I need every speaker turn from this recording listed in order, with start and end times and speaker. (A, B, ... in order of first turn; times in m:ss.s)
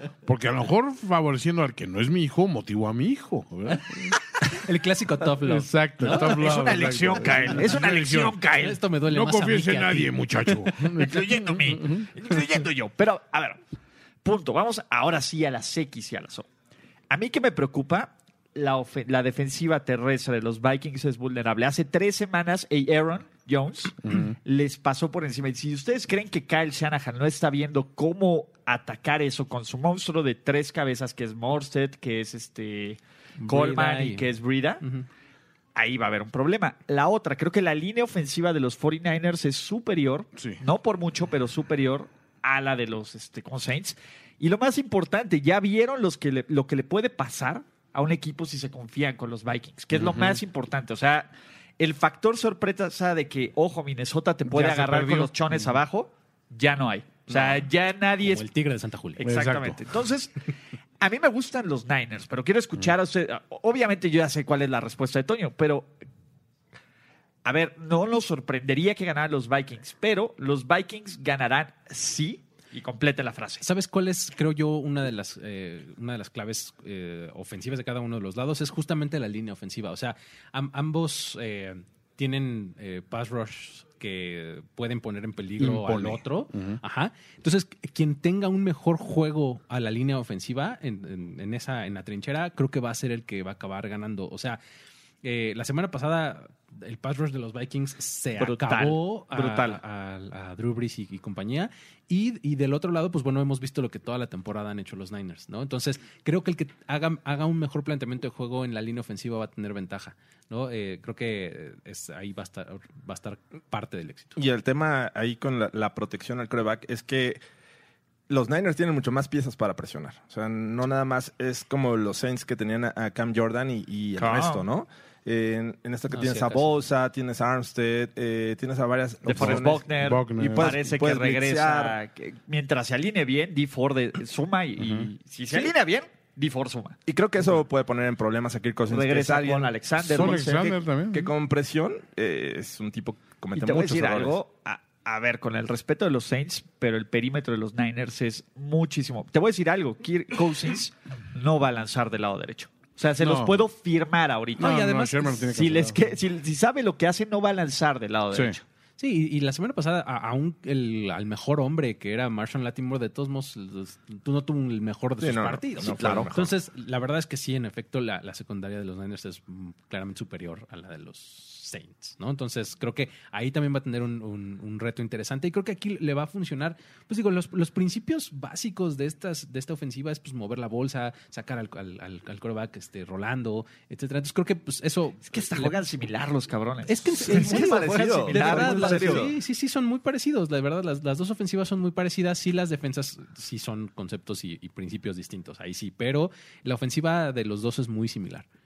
0:00.2-0:04.2 A
0:04.5-0:06.4 B
0:05.4-0:08.4 A
0:06.0-0:08.8 C
0:08.6-0:10.2 B
0:09.0-0:12.1 A
0:10.9-0:13.6 C
0:14.2-0:16.5 C
0:17.1-0:34.8 C
0:24.0-0:24.4 A
0:33.4-0:34.3 B
0:35.8-0:58.4 C
0:49.9-0:50.4 A
0:54.5-0:55.3 A
0:57.3-0:57.6 D
0:58.2-0:59.2 B
0:59.2-1:00.3 C
0:59.2-0:59.8 A
1:01.0-1:05.9 C
1:07.4-1:13.6 C
1:13.6-1:34.6 B
1:25.6-1:26.8 A
1:35.2-1:54.4 B
1:38.4-1:39.8 C
1:54.4-1:57.4 D
1:58.3-2:12.0 D
2:04.2-2:04.6 C
2:06.1-2:06.8 B
2:09.2-2:17.0 C
2:09.3-2:10.8 A
2:14.8-2:15.1 A
2:17.1-2:20.6 D
2:18.9-2:20.8 C
2:20.0-2:21.3 A
2:21.1-2:24.4 D
2:23.5-2:34.8 C
2:33.2-2:33.7 A
2:34.6-2:36.0 A
2:34.6-2:35.5 B
2:35.4-2:38.6 C
2:38.3-2:38.6 A
2:39.0-3:05.7 B
2:45.2-2:46.5 D
2:45.9-2:46.2 C
3:05.3-3:09.3 C
3:06.9-3:18.4 B
3:07.1-3:09.3 D